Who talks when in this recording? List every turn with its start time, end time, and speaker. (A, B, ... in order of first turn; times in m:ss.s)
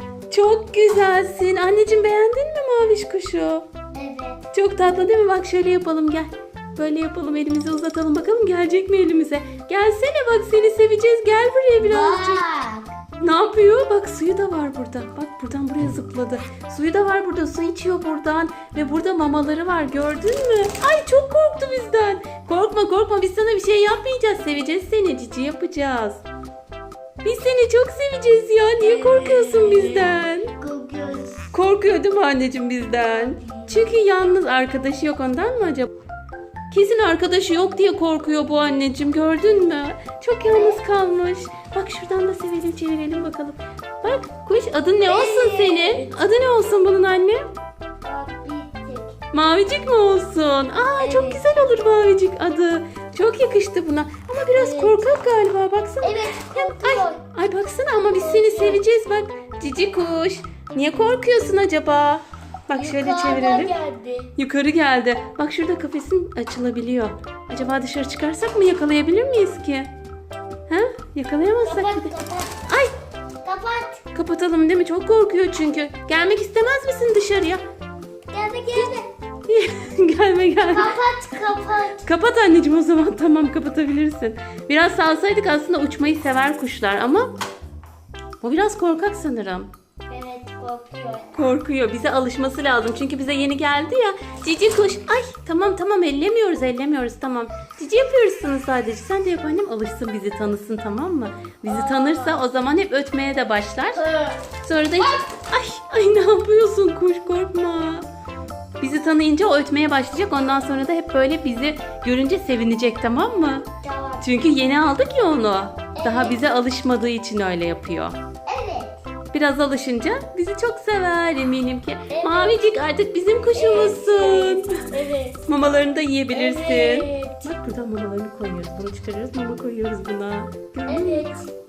0:00.3-0:03.6 A
0:03.9-0:04.5 B
0:04.5-0:12.4 A
0:11.8-0:13.0 B
0:13.2-0:26.2 A
0:27.2-0:30.6 A
0:28.8-0:31.5 B
0:31.5-0:35.9 A
0:33.1-0:33.9 B
0:36.7-0:47.5 A
0:40.4-0:40.8 B
0:45.0-0:46.3 B
0:48.0-0:49.2 B
0:49.3-1:03.7 A
0:51.0-0:51.5 B
0:54.5-0:55.1 B
0:56.0-0:57.2 B
0:58.1-0:58.8 B
1:02.7-1:04.3 B
1:04.4-1:09.9 A
1:10.7-1:12.1 A
1:11.6-1:12.6 B
1:13.4-1:14.0 B
1:14.1-1:17.6 A
1:18.3-1:19.1 B
1:19.5-1:21.0 A
1:20.7-1:22.1 B
1:22.0-1:27.3 A
1:28.4-1:29.7 A
1:30.1-1:31.4 B
1:31.3-1:44.0 A
1:41.6-1:42.4 B
1:43.9-1:44.4 B
1:44.6-1:48.1 A
1:45.0-1:45.2 B
1:48.8-1:53.7 A
1:53.8-1:54.5 B
1:54.2-1:58.2 A
1:56.0-1:56.4 B
1:58.5-1:59.0 B
1:59.3-2:04.9 A
2:02.1-2:02.8 B
2:03.5-2:05.5 B
2:05.5-2:11.3 A
2:06.3-2:07.5 B
2:10.9-2:11.5 B